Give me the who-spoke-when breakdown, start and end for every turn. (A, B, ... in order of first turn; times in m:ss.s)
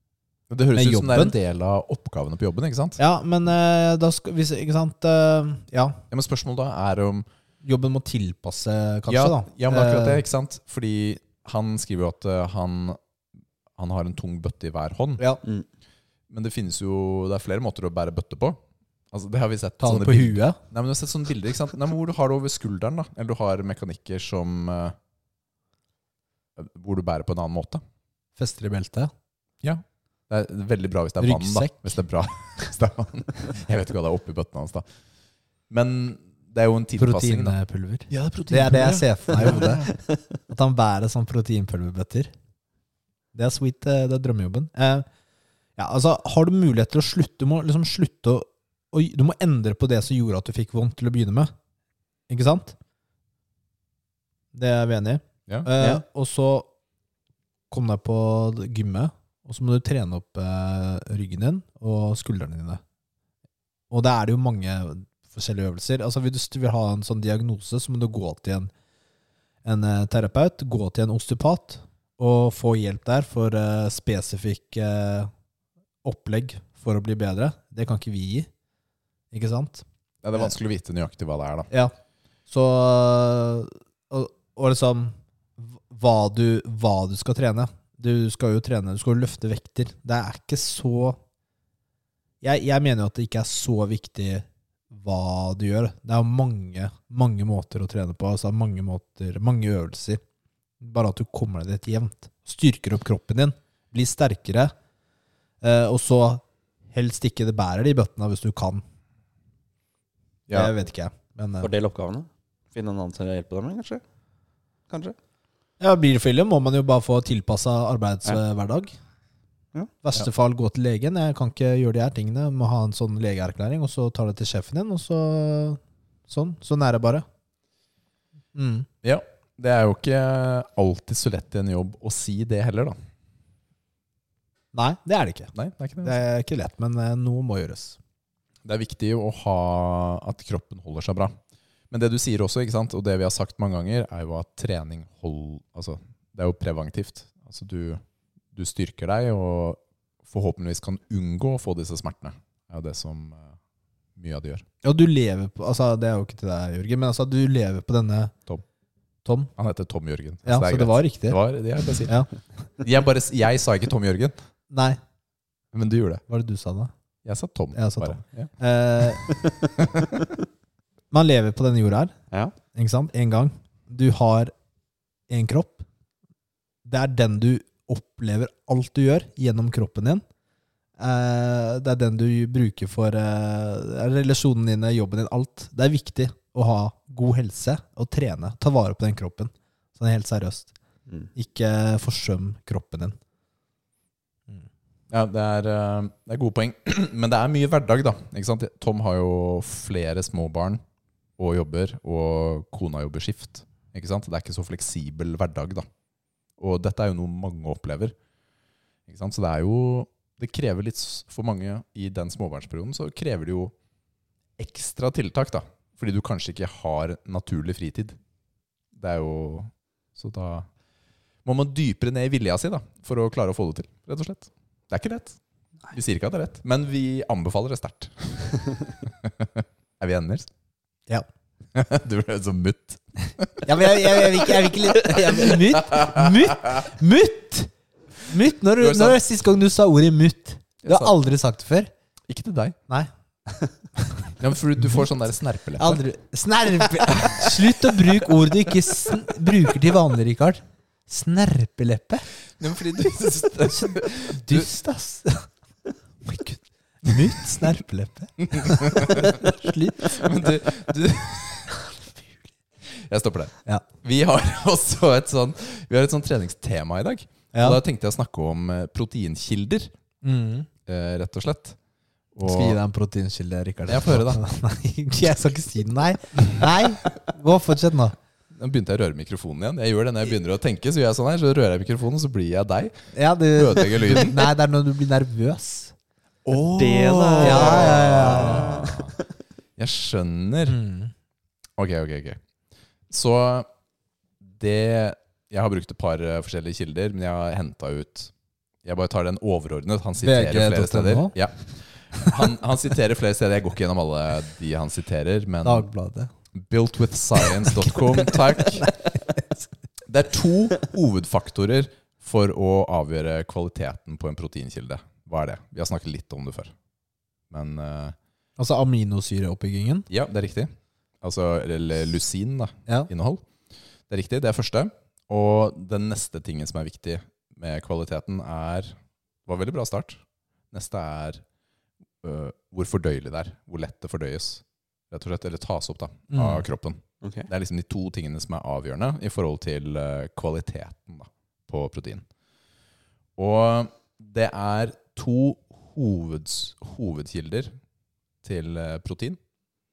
0:00.5-0:03.0 A
0:00.7-0:01.3 B
0:03.0-0:06.0 B
0:06.1-0:07.3 A
0:07.6-0:10.2 B
0:09.1-0:13.0 A
0:13.8-0:15.2 A
0:16.3-0:18.6 A
0:19.1-0:25.0 A
0:19.8-0:20.6 B
0:26.6-0:27.8 A
0:28.4-0:29.1 B
0:29.6-0:34.8 A
0:31.2-0:31.9 B
0:35.7-0:37.6 A
0:37.0-0:39.8 B
0:38.1-0:39.9 A
0:40.5-0:42.3 B
0:43.3-0:45.0 B
0:45.8-0:51.5 B
0:52.3-0:52.8 B
0:54.5-0:56.7 B
0:57.7-1:02.8 B
1:03.9-1:08.7 B
1:09.6-1:15.3 B
1:16.0-1:18.5 B
1:19.3-1:19.8 B
1:20.2-1:21.7 A
1:22.5-1:31.2 B
1:32.4-1:40.2 B
1:40.8-1:44.7 B
1:45.6-1:48.8 B
1:50.5-1:51.7 B
1:51.6-1:54.0 C
1:54.9-1:55.2 C
1:55.8-1:58.9 B
2:00.0-2:07.2 B
2:08.5-2:08.9 B
2:09.0-2:13.0 A
2:14.7-2:15.5 B
2:15.5-2:16.2 A
2:16.0-2:18.0 B
2:18.6-2:21.3 A
2:21.9-2:28.0 A
2:28.5-2:33.6 A
2:34.2-2:34.6 A
2:34.8-2:38.3 B
2:39.2-2:39.5 B
2:39.6-2:42.2 A
2:40.4-2:41.4 B
2:42.8-2:44.3 A
2:44.7-2:45.0 B
2:45.7-2:46.2 A
2:46.3-2:46.9 B
2:47.2-2:48.5 A
2:47.7-2:49.3 B
2:49.8-2:50.2 A
2:51.1-2:52.1 B
2:52.7-2:54.5 B
2:55.3-2:55.8 B
2:56.8-3:00.2 B
3:01.0-3:10.7 B
3:11.4-3:13.2 B
3:15.1-3:20.8 A
3:21.4-3:25.9 A
3:26.6-3:28.1 A
3:29.1-3:33.7 A
3:34.6-3:38.2 A
3:38.9-3:40.7 A
3:41.4-3:45.4 A
3:45.9-3:50.5 A
3:51.7-3:54.5 A
3:53.6-3:57.7 B
3:55.3-3:56.2 A
3:58.3-4:01.9 B
3:58.8-3:59.2 A
4:00.8-4:01.1 A
4:02.3-4:02.8 A
4:04.4-4:06.0 A
4:05.8-4:12.3 B
4:07.1-4:07.6 A
4:12.6-4:14.7 A
4:13.7-4:15.5 B
4:16.2-4:20.2 B
4:18.4-4:19.4 A
4:20.0-4:21.8 A
4:22.9-4:29.9 A
4:27.5-4:27.8 B
4:30.2-4:30.7 B
4:30.9-4:31.8 A
4:32.3-4:32.8 A
4:32.4-4:38.2 B
4:33.9-4:34.4 A
4:38.5-4:42.9 A
4:43.1-4:45.9 B
4:43.5-4:44.4 A
4:46.4-4:49.1 A
4:46.7-4:49.0 C
4:47.4-4:48.8 B
4:49.8-4:50.8 A
4:50.7-4:51.1 B
4:51.8-4:52.4 A
4:53.1-4:53.7 A
4:54.4-4:58.3 A
4:58.8-5:05.9 A
5:00.2-5:01.4 B
5:05.6-5:06.3 B
5:06.5-5:08.9 A
5:10.0-5:16.7 A
5:17.5-5:18.2 A
5:18.6-5:20.1 B
5:20.1-5:23.4 A
5:24.1-5:28.9 A
5:29.4-5:31.4 A
5:32.2-5:42.2 A
5:36.3-5:36.6 B
5:37.2-5:37.5 C
5:43.4-5:47.7 A
5:48.4-5:49.4 A